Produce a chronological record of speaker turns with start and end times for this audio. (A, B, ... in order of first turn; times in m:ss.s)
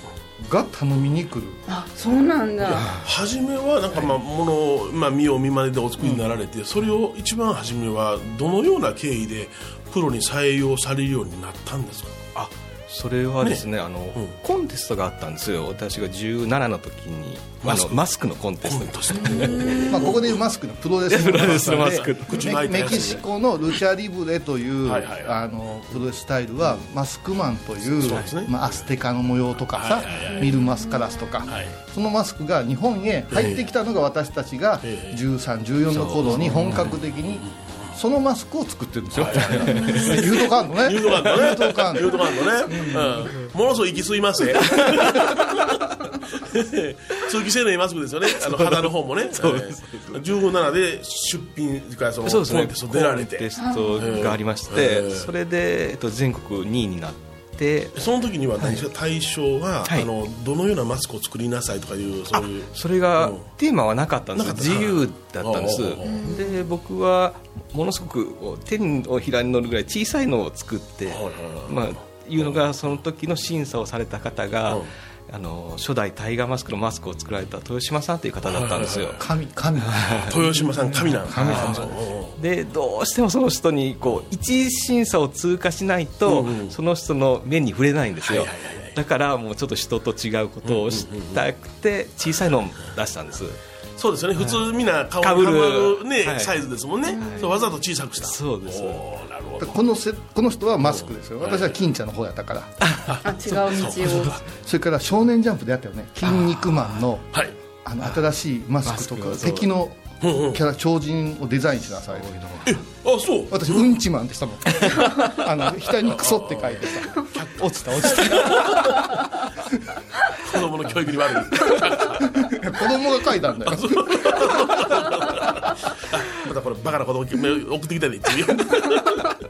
0:00.4-0:01.6 A
0:01.7-0:02.9 B
0:02.6-0:12.2 C
0:12.4-0:19.7 D
0:17.6-0:18.0 C
0:18.6-0:20.4 C
0:19.2-0:19.9 B
0:19.9-0:43.3 A
0:21.1-0:22.5 D
0:21.3-0:23.2 C
0:24.8-0:25.4 C
0:27.9-0:28.6 C
0:29.7-0:30.6 C
0:30.2-0:31.4 B
0:31.5-0:31.8 C
0:33.3-0:33.7 C
0:34.8-0:35.2 C
0:35.9-0:37.9 C
0:39.2-0:45.5 C
0:39.7-0:40.2 D
0:39.8-0:40.2 B
0:44.8-0:45.4 D
0:46.4-0:55.3 C
0:48.5-0:50.2 D
0:52.3-0:58.0 D
0:53.6-0:54.4 B
0:58.0-1:03.5 C
1:02.3-1:19.2 D
1:04.3-1:06.3 C
1:06.0-1:06.6 B
1:11.1-1:11.8 C
1:18.4-1:19.2 C
1:19.2-1:22.0 A
1:19.9-1:20.3 D
1:20.3-1:22.4 C
1:21.4-1:21.8 D
1:22.4-1:33.6 D
1:26.3-1:26.8 C
1:28.2-1:29.0 C
1:30.6-1:31.4 C
1:34.0-1:39.8 C
1:34.4-1:34.6 D
1:35.2-1:36.6 D
1:37.1-1:37.7 B
1:37.2-1:37.5 D
1:38.2-1:39.0 D
1:39.6-1:42.8 A
1:40.8-1:41.8 C
1:42.8-1:43.2 D
1:43.1-1:44.4 C
1:43.2-1:44.4 B
1:44.0-1:44.3 D
1:44.6-1:52.3 A
1:48.8-1:49.6 D
1:50.2-1:50.6 C
1:52.1-1:52.8 D
1:52.7-1:53.9 C
1:53.5-1:58.8 A
1:56.0-1:59.1 C
2:00.4-2:02.5 C
2:02.2-2:04.4 A
2:03.6-2:09.2 C